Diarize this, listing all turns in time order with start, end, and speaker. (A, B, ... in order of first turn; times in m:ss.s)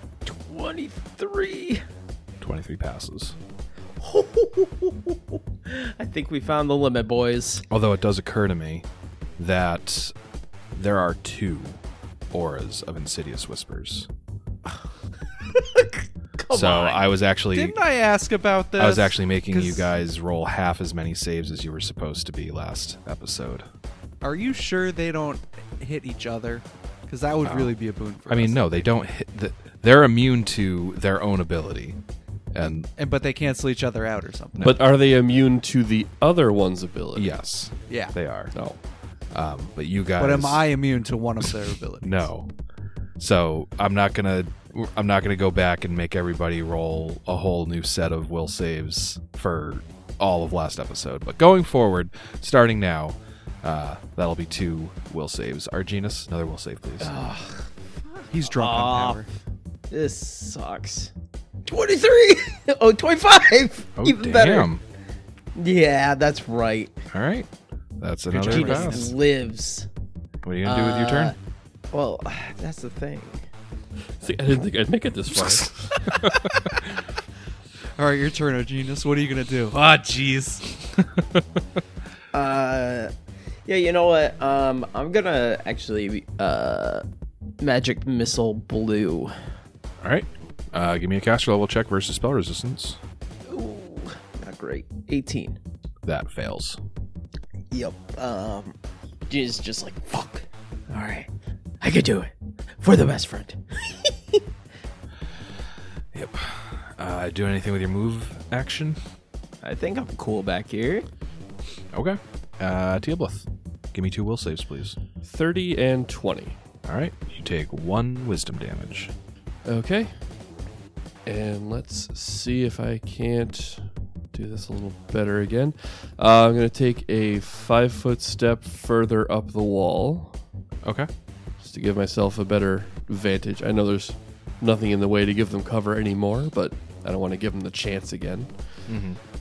0:00.2-0:01.8 A
0:02.4-0:03.4 B
0:04.0-0:07.6 A
0:07.7-0:08.8 B
0:09.4-0:10.1 B
0:10.7-0:11.8 B
0:12.3-0:14.1 B
0:15.5-0:17.0 A
0:16.5-0:17.8 B
0:17.5-0:19.9 C
0:18.8-0:23.7 B
0:24.2-0:28.9 C
0:27.4-0:27.8 B
0:28.3-0:32.0 B
0:32.5-0:32.9 B
0:33.0-0:34.8 C
0:34.6-0:37.3 D
0:37.1-0:38.6 B
0:37.9-0:38.2 C
0:38.5-0:38.8 D
0:39.3-0:40.6 B
0:40.2-0:42.3 C
0:42.0-0:42.5 B
0:43.2-0:57.2 B
0:57.0-0:57.7 A
0:58.3-0:59.3 C
0:58.5-0:59.2 A
0:59.9-1:01.1 A
1:01.6-1:04.7 A
1:04.0-1:04.8 B
1:05.5-1:07.0 A
1:07.1-1:09.1 B
1:08.3-1:09.1 C
1:08.4-1:09.9 A
1:10.4-1:11.3 B
1:10.6-1:11.4 A
1:11.9-1:13.4 A
1:14.2-1:16.1 D
1:16.2-1:16.7 B
1:18.0-1:20.8 C
1:22.3-1:23.1 A
1:23.6-1:27.0 A
1:27.6-1:29.4 A
1:30.0-1:33.0 B
1:33.5-1:35.6 A
1:36.0-1:36.8 B
1:37.7-1:38.7 A
1:39.3-1:41.3 A
1:41.8-1:44.4 A
1:46.1-1:49.0 B
1:49.6-1:51.1 A
1:51.9-1:55.0 B
1:55.2-1:56.6 D
1:56.8-1:59.1 B
1:59.6-2:00.3 D
2:01.2-2:10.4 D
2:10.8-2:11.1 B
2:11.6-2:18.9 D
2:18.9-2:19.2 B